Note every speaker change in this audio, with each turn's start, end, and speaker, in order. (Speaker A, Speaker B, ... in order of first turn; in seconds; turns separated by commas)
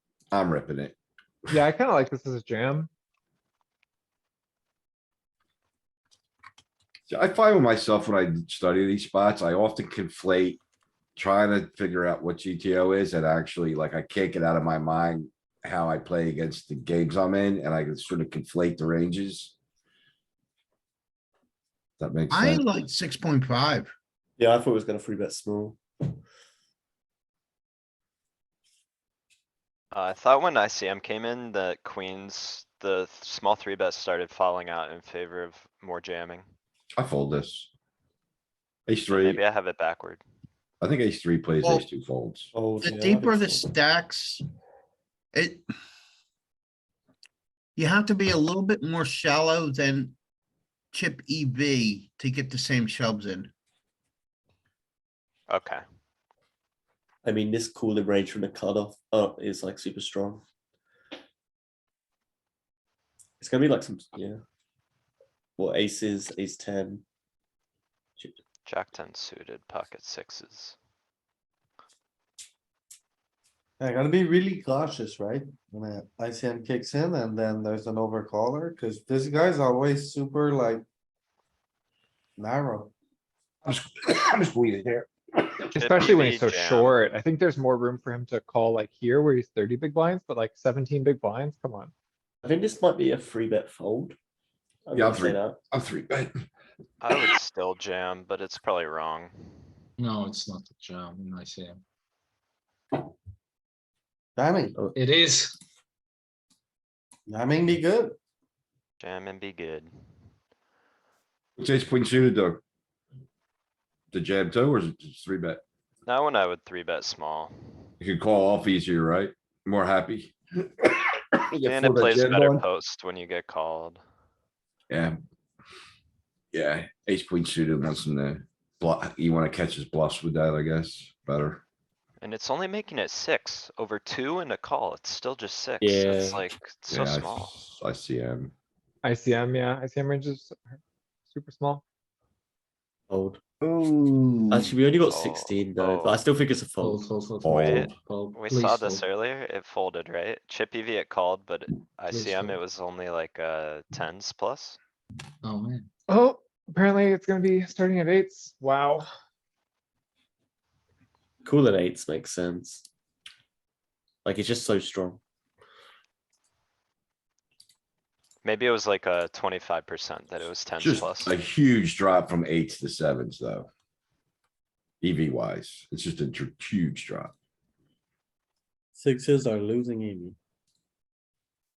Speaker A: 0.3-0.9, Speaker B: 1.5-2.9, Speaker A: 7.1-10.6, Speaker A: 11.2-19.5, Speaker A: 22.0-22.6, Speaker C: 22.3-23.9, Speaker D: 24.4-26.2, Speaker E: 29.9-36.5, Speaker A: 37.0-37.7, Speaker A: 38.9-39.4, Speaker E: 39.1-40.2, Speaker A: 40.8-42.5, Speaker D: 42.5-43.7, Speaker C: 42.8-44.4, Speaker C: 45.3-45.6, Speaker C: 47.8-50.1, Speaker C: 50.9-53.5, Speaker E: 55.5-55.8, Speaker D: 57.2-60.4, Speaker D: 63.4-64.4, Speaker D: 65.6-67.0, Speaker E: 68.7-70.7, Speaker F: 73.8-80.8, Speaker F: 82.4-82.9, Speaker A: 83.6-85.1, Speaker B: 85.7-91.9, Speaker E: 85.8-87.0, Speaker D: 92.4-94.2, Speaker D: 94.8-95.6, Speaker A: 94.9-96.3, Speaker E: 97.0-99.7, Speaker G: 100.0-101.8, Speaker F: 104.3-104.8, Speaker G: 104.9-105.6, Speaker F: 107.3-108.2, Speaker E: 109.0-109.9, Speaker A: 111.6-112.6, Speaker A: 114.1-115.6, Speaker E: 116.0-117.5, Speaker A: 118.0-122.6, Speaker E: 121.6-124.0, Speaker A: 124.9-125.2, Speaker A: 126.5-131.6, Speaker E: 132.2-137.6, Speaker D: 135.8-136.5, Speaker A: 136.9-138.5, Speaker B: 139.0-140.8, Speaker B: 141.3-141.8, Speaker D: 143.1-143.4, Speaker C: 143.6-144.7, Speaker D: 144.5-147.1, Speaker E: 145.1-146.2, Speaker G: 146.8-149.0, Speaker A: 147.4-147.9, Speaker E: 147.5-154.8, Speaker G: 152.1-152.6, Speaker G: 155.4-155.9, Speaker B: 156.1-159.1, Speaker D: 161.4-162.8, Speaker D: 164.2-165.2, Speaker E: 168.4-171.3, Speaker A: 170.8-173.7, Speaker A: 175.0-177.3, Speaker F: 178.9-180.3